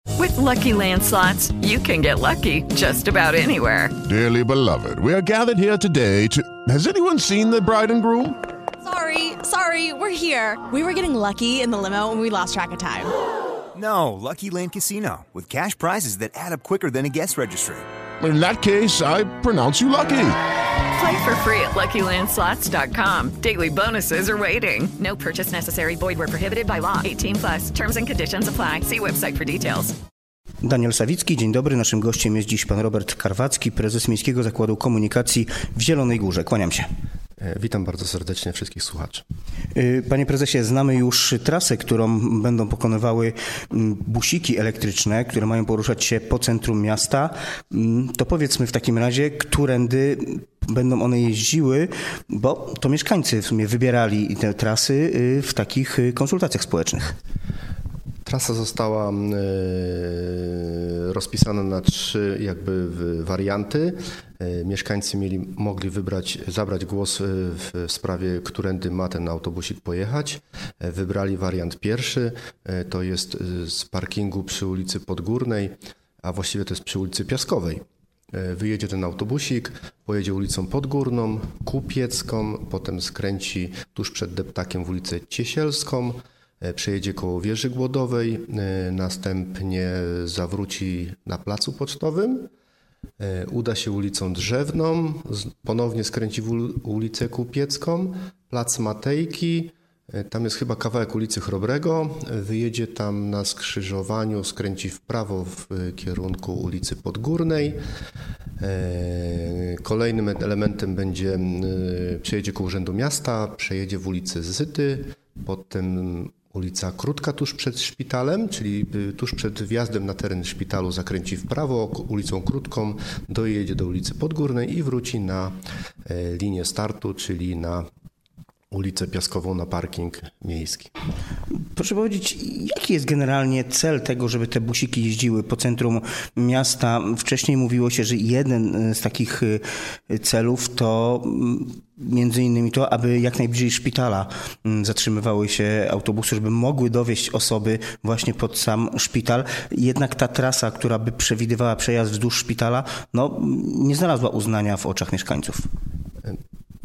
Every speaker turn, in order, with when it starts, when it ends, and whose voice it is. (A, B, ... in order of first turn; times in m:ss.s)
0:00.2-0:04.0 A
0:04.0-0:08.4 B
0:08.8-0:13.1 C
0:13.8-0:17.9 D
0:18.2-0:20.4 B
0:20.9-0:29.9 A
0:30.6-0:36.9 E
0:37.4-0:39.2 F
0:39.7-0:57.2 E
0:58.3-1:32.5 F
1:33.2-1:47.8 F
1:48.6-2:07.9 F
2:08.7-2:10.9 F
2:11.7-2:35.7 E